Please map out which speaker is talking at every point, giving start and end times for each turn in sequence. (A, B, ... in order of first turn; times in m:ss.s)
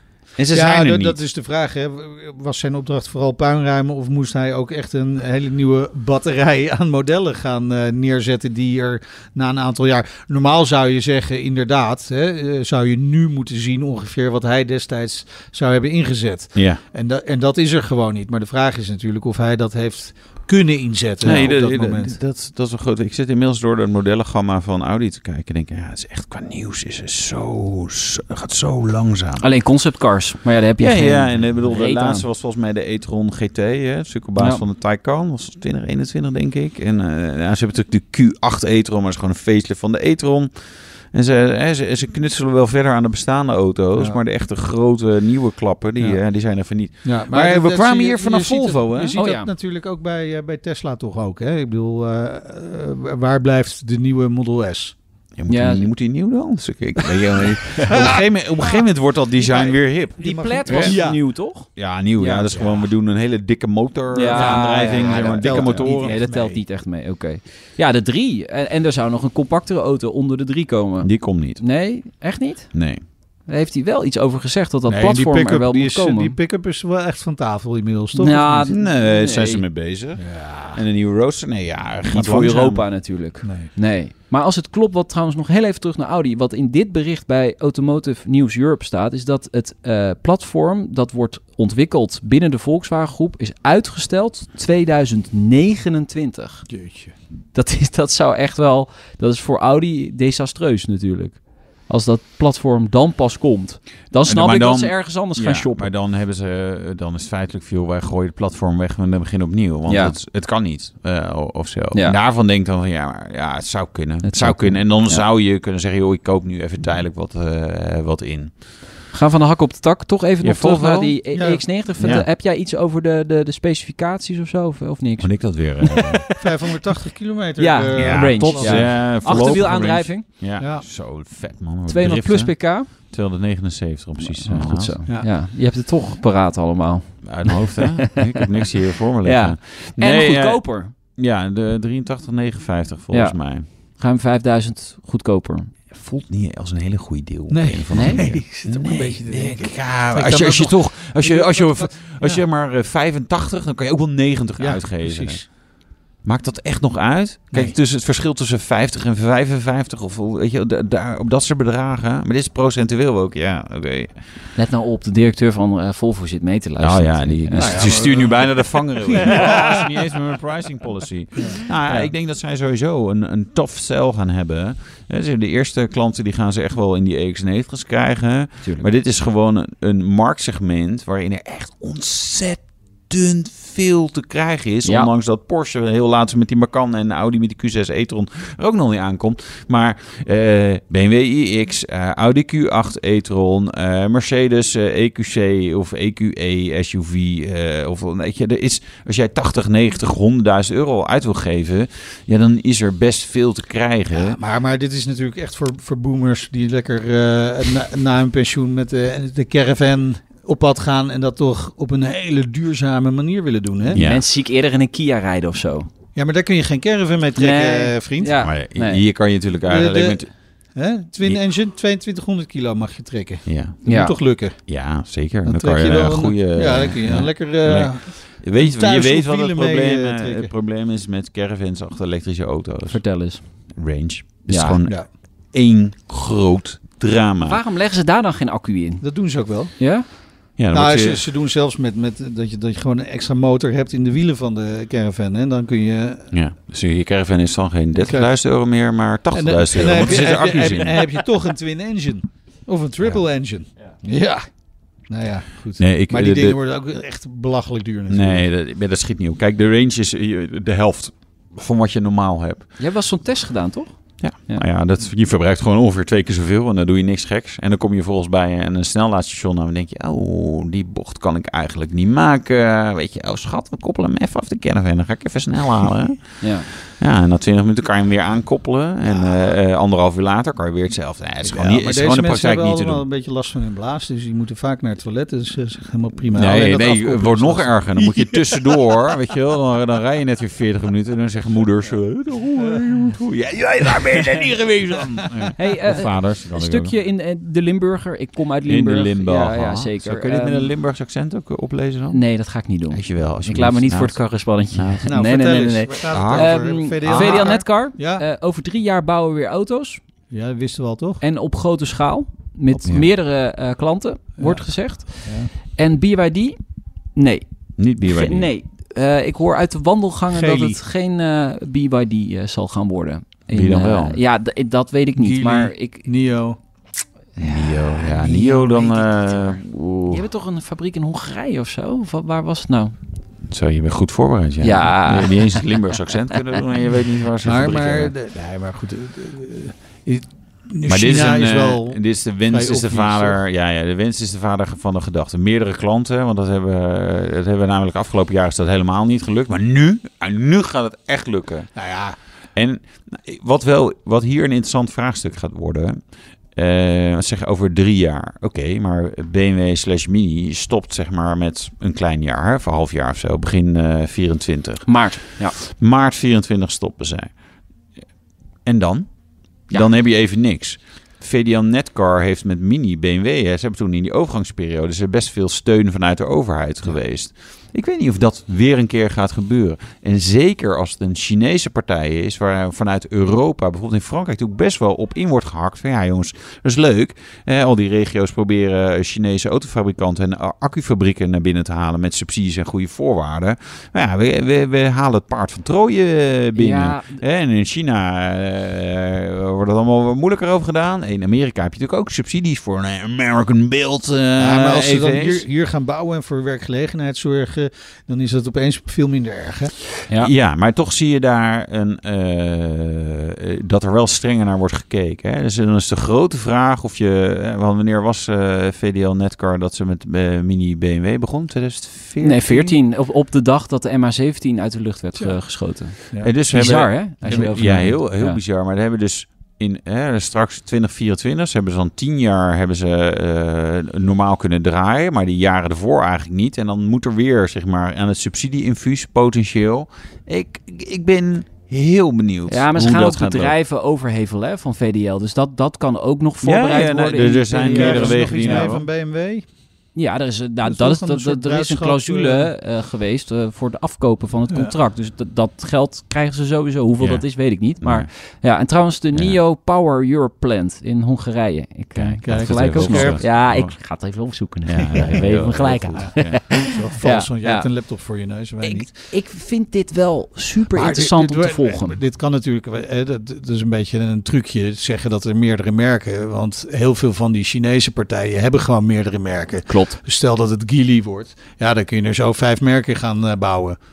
0:00.4-0:01.2 A
0:00.5-0:22.2 B
0:16.5-0:16.8 A
0:21.2-0:29.4 A
0:29.4-0:32.2 C
0:30.8-0:40.5 A
0:41.1-0:49.2 A
0:47.0-0:54.9 B
0:49.2-0:49.5 C
0:55.4-1:06.2 A
0:55.5-0:55.9 C
0:57.9-0:58.8 B
0:59.4-1:01.2 B
1:00.2-1:02.5 C
1:02.5-1:02.8 B
1:04.1-1:12.7 C
1:04.3-1:06.6 B
1:11.0-1:11.6 A
1:12.7-1:13.0 A
1:13.5-1:16.4 C
1:14.9-1:18.7 B
1:18.1-1:19.6 C
1:18.6-1:22.8 A
1:20.2-1:20.8 B
1:22.1-1:36.6 C
1:23.4-1:23.7 B
1:36.7-1:37.1 B
1:37.5-1:45.9 C
1:44.2-1:58.5 A
1:49.9-1:50.1 C
1:54.2-1:55.2 C
1:59.1-2:06.4 C
2:00.4-2:01.2 A
2:01.3-2:02.1 B
2:02.0-2:02.3 A
2:05.2-2:06.2 A
2:06.4-2:09.6 B
2:07.6-2:10.2 C
2:07.9-2:15.0 A
2:10.6-2:10.8 B
2:11.9-2:12.9 C
2:14.2-2:18.6 C
2:17.2-2:20.6 A
2:19.2-2:20.9 C
2:21.1-2:23.6 A
2:23.1-2:23.4 C
2:24.0-2:26.2 C
2:26.1-2:35.5 A
2:27.5-2:32.4 B
2:27.9-2:28.2 C
2:34.6-2:35.4 B
2:36.2-2:44.1 A
2:44.6-2:47.9 C
2:46.8-3:24.4 A
2:47.5-2:49.9 B
2:51.4-2:52.1 B
3:04.8-3:05.1 C
3:24.1-3:34.0 B
3:33.9-3:34.2 A
3:33.9-3:35.9 C
3:36.1-3:38.4 B
3:37.4-3:39.0 C
3:38.4-3:40.3 A
3:39.7-3:40.2 B
3:40.8-3:44.6 B
3:43.4-3:43.8 A
3:43.8-3:44.1 C
3:44.7-3:53.0 A
3:45.4-3:50.5 B
3:52.9-3:53.4 C
3:53.7-3:57.6 A
3:54.5-3:54.8 C
3:57.4-3:59.0 C
3:59.0-3:59.7 B
3:59.8-4:00.1 C
4:00.6-4:01.3 A
4:00.7-4:06.3 B
4:06.3-4:11.1 A
4:08.0-4:08.3 B
4:09.3-4:14.5 B
4:15.1-4:18.4 B
4:15.8-4:16.6 A
4:18.1-4:22.6 A
4:22.8-4:23.9 C
4:24.2-4:43.0 A
4:36.4-4:36.7 C
4:41.4-4:49.1 B
4:46.3-4:56.9 A
4:55.2-4:55.5 B
4:55.6-5:00.7 C
4:58.6-5:02.2 A
5:02.1-5:10.0 C
5:02.9-5:05.1 A
5:05.0-5:08.2 B
5:06.1-5:07.6 A
5:10.3-5:11.2 B
5:11.2-5:16.6 C
5:14.4-5:14.6 B
5:15.2-5:15.5 B
5:17.1-5:17.4 C
5:17.8-5:18.5 A
5:18.0-5:26.1 C
5:20.3-5:20.8 B
5:23.5-5:24.2 A
5:25.2-5:26.6 B
5:27.4-5:30.2 A
5:27.4-5:32.9 C
5:33.5-5:38.1 A
5:34.6-5:35.9 C
5:37.4-5:43.4 B
5:40.8-5:51.7 A
5:51.8-5:52.2 B
5:52.5-5:56.0 A
5:56.5-6:07.3 A
6:04.8-6:05.6 C
6:08.6-6:09.1 A
6:09.7-6:45.4 A
6:36.5-6:37.2 C
6:44.4-6:49.7 B
6:50.1-7:02.8 A
7:02.2-7:08.4 C
7:06.2-7:23.5 A
7:22.5-7:28.7 C
7:26.4-7:28.9 A
7:27.6-7:29.4 B
7:29.9-7:47.7 C
7:30.6-7:32.5 B
7:37.0-7:37.2 A
7:37.8-7:38.1 A
7:39.1-7:39.4 A
7:41.9-7:43.8 A
7:42.2-7:43.3 B
7:44.6-7:46.6 A
7:46.5-7:48.9 B
7:48.6-7:52.0 C
7:50.7-8:03.8 B
7:59.7-8:00.0 C